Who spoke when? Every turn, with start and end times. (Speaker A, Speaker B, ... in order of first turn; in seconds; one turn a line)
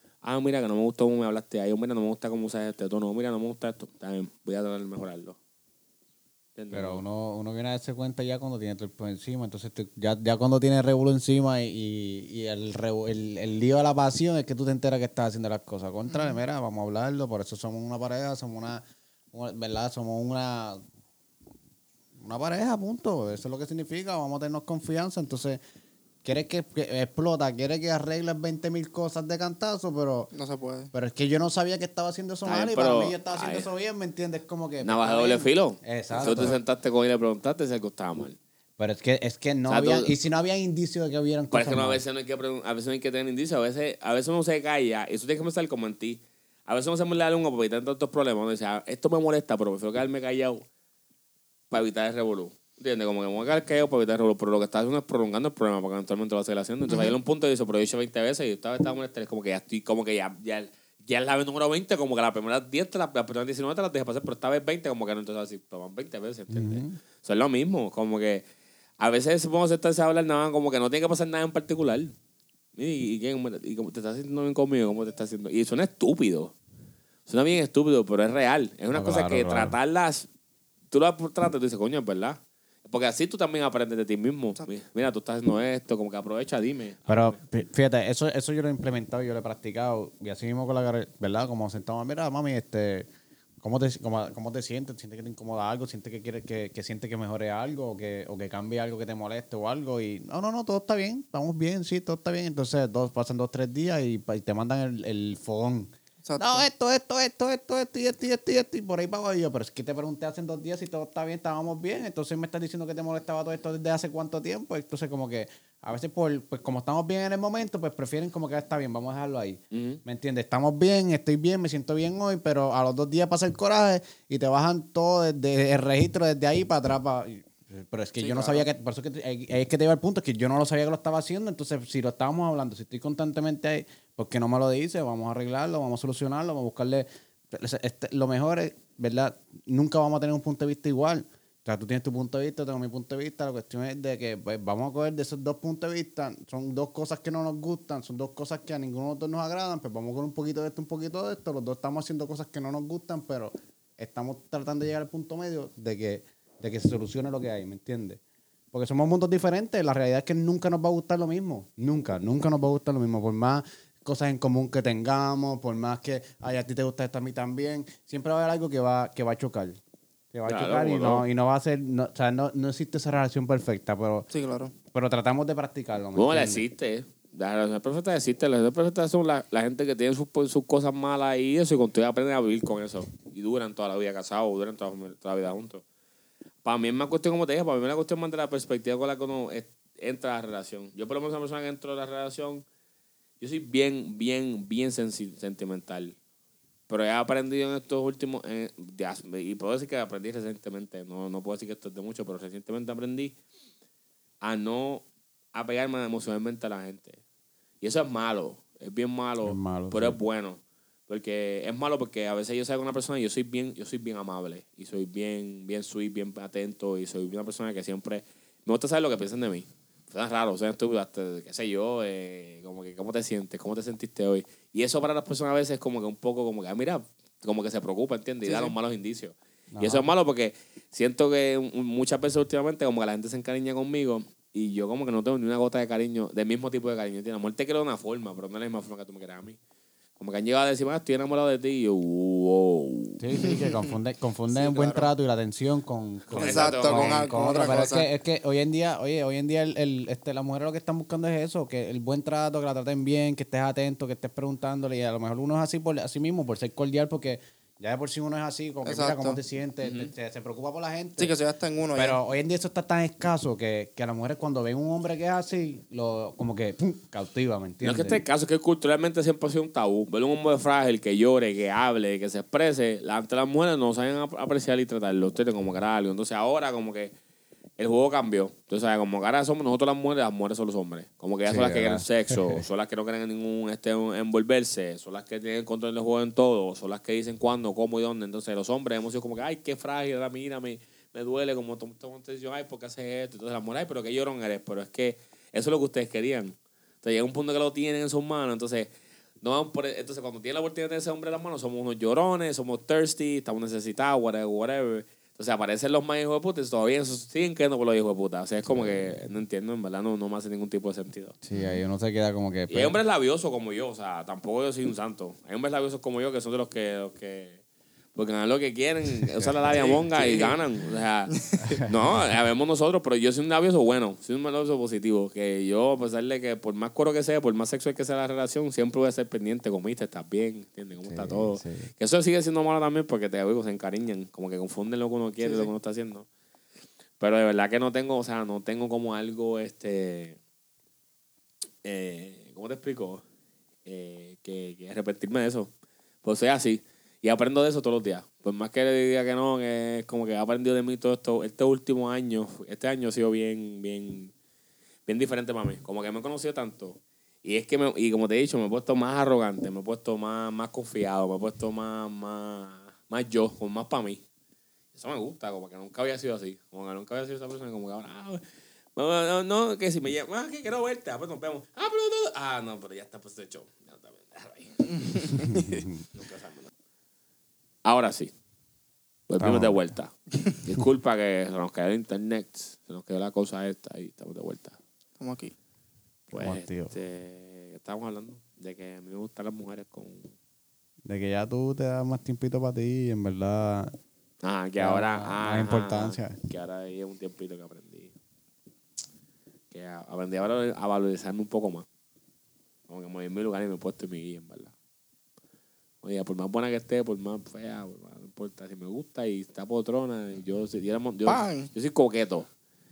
Speaker A: 0.2-5.4
Speaker A: 6.6-7.0
Speaker B: 6.7-20.8
Speaker C: 16.1-16.4
Speaker B: 22.2-25.6
Speaker B: 26.2-30.3
Speaker C: 30.3-30.9
Speaker B: 30.9-36.6
Speaker A: 32.5-33.7
Speaker A: 34.8-38.4
Speaker C: 36.2-36.6
Speaker B: 38.8-42.0
Speaker A: 39.7-40.1
Speaker A: 41.5-50.6
Speaker A: 51.7-68.5
Speaker B: 66.5-67.0
Speaker A: 69.0-72.1
Speaker A: 72.8-76.5
Speaker A: 77.3-80.3
Speaker B: 78.9-79.8
Speaker A: 80.9-87.4
Speaker B: 87.1-93.1
Speaker B: 93.6-158.2
Speaker C: 106.2-106.7
Speaker A: 119.7-120.0
Speaker C: 128.2-128.7
Speaker B: 158.7-169.8
Speaker B: 170.3-174.3
Speaker A: 170.5-171.3
Speaker C: 174.3-174.7
Speaker B: 174.9-176.7
Speaker A: 176.2-185.8
Speaker A: 186.6-192.7
Speaker A: 193.4-196.2
Speaker A: 196.9-203.4
Speaker A: 204.4-207.2
Speaker A: 207.8-239.6
Speaker B: 209.4-210.2
Speaker C: 228.4-228.8
Speaker B: 229.7-230.1
Speaker A: 240.2-243.5
Speaker B: 243.2-261.4
Speaker A: 244.5-245.1
Speaker A: 246.3-247.4
Speaker C: 246.4-248.1
Speaker C: 258.9-259.4
Speaker A: 259.8-260.1
Speaker C: 261.2-262.2
Speaker B: 261.9-268.2
Speaker A: 267.8-277.1
Speaker A: 277.8-298.9
Speaker B: 281.5-282.6
Speaker A: 299.4-311.4
Speaker B: 311.4-313.0
Speaker A: 312.7-317.6
Speaker A: 318.1-336.3
Speaker B: 319.4-319.8
Speaker C: 319.7-320.6
Speaker C: 321.3-321.8
Speaker B: 331.0-331.9
Speaker C: 335.4-335.7
Speaker A: 337.2-340.4
Speaker A: 341.8-343.2
Speaker A: 343.9-345.7
Speaker A: 346.2-354.3
Speaker A: 355.1-364.2
Speaker A: 364.9-368.4
Speaker A: 369.0-374.9
Speaker C: 374.9-375.8
Speaker B: 375.4-376.0
Speaker A: 376.1-376.7
Speaker A: 377.9-378.3
Speaker A: 379.3-384.8
Speaker B: 379.4-379.9
Speaker C: 385.2-385.5
Speaker A: 386.3-390.3
Speaker B: 386.3-386.9
Speaker B: 391.1-393.9
Speaker A: 394.4-398.1
Speaker B: 394.8-396.4
Speaker A: 399.7-401.9
Speaker A: 402.9-404.7
Speaker A: 406.0-412.5
Speaker C: 411.2-411.7